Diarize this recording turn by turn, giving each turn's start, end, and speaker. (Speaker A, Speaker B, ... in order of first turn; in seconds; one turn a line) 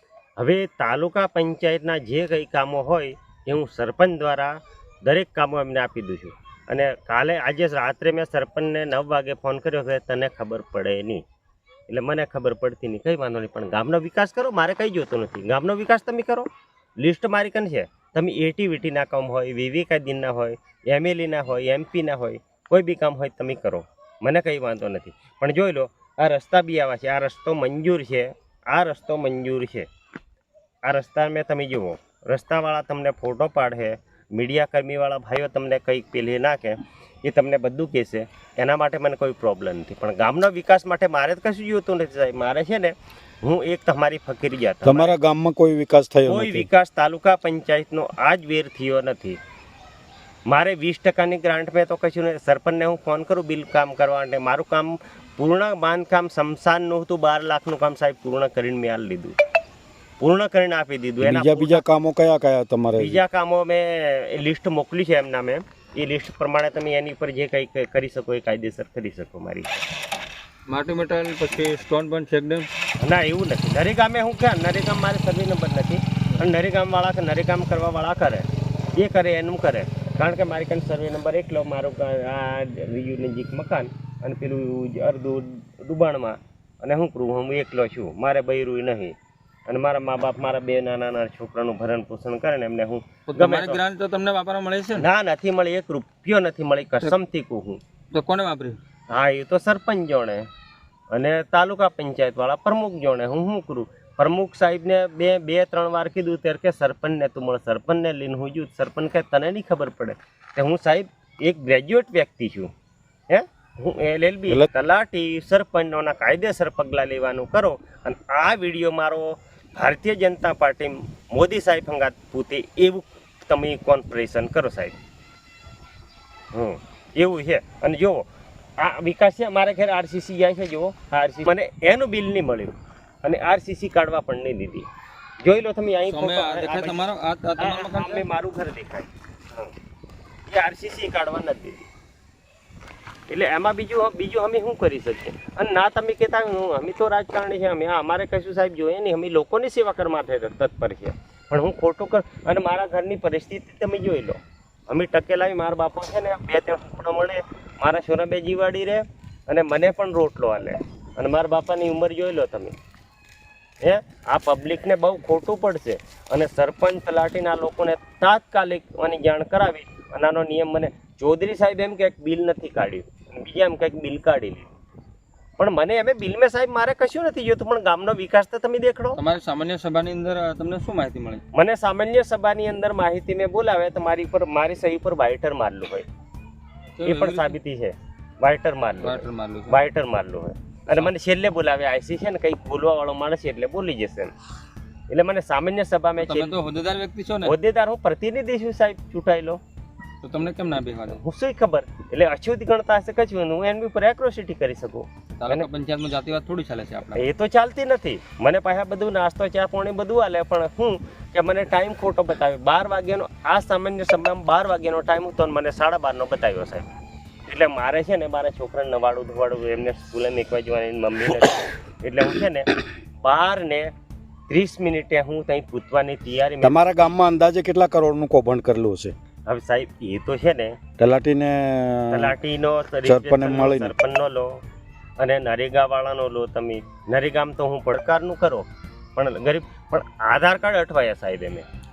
Speaker A: 0.4-11.2
Speaker A: 11.9-16.5
Speaker A: 17.0-29.9
Speaker A: 30.8-45.1
Speaker B: 44.8-46.7
Speaker A: 46.2-49.4
Speaker A: 50.5-59.4
Speaker A: 60.2-61.8
Speaker B: 61.2-63.2
Speaker A: 62.9-69.8
Speaker C: 70.7-72.7
Speaker A: 73.0-89.1
Speaker A: 89.7-93.8
Speaker C: 93.3-95.1
Speaker A: 94.9-97.8
Speaker C: 98.1-98.8
Speaker A: 99.1-100.5
Speaker A: 101.1-112.7
Speaker A: 113.3-125.0
Speaker A: 126.5-128.2
Speaker A: 128.8-134.9
Speaker A: 135.4-137.0
Speaker C: 136.1-138.2
Speaker A: 137.6-139.7
Speaker A: 140.5-141.9
Speaker A: 143.3-162.7
Speaker A: 163.8-174.7
Speaker A: 175.6-179.2
Speaker C: 179.1-181.4
Speaker A: 181.5-186.1
Speaker C: 187.0-187.6
Speaker A: 187.0-194.3
Speaker C: 189.0-189.8
Speaker A: 195.1-196.6
Speaker C: 196.2-197.6
Speaker A: 197.4-199.6
Speaker C: 200.2-201.2
Speaker A: 201.1-205.7
Speaker C: 205.4-207.2
Speaker A: 207.1-216.8
Speaker A: 217.5-222.7
Speaker A: 223.2-223.9
Speaker A: 224.5-227.1
Speaker B: 226.6-229.1
Speaker A: 229.4-230.8
Speaker B: 231.0-232.3
Speaker A: 232.1-234.6
Speaker B: 233.0-233.9
Speaker A: 235.2-241.6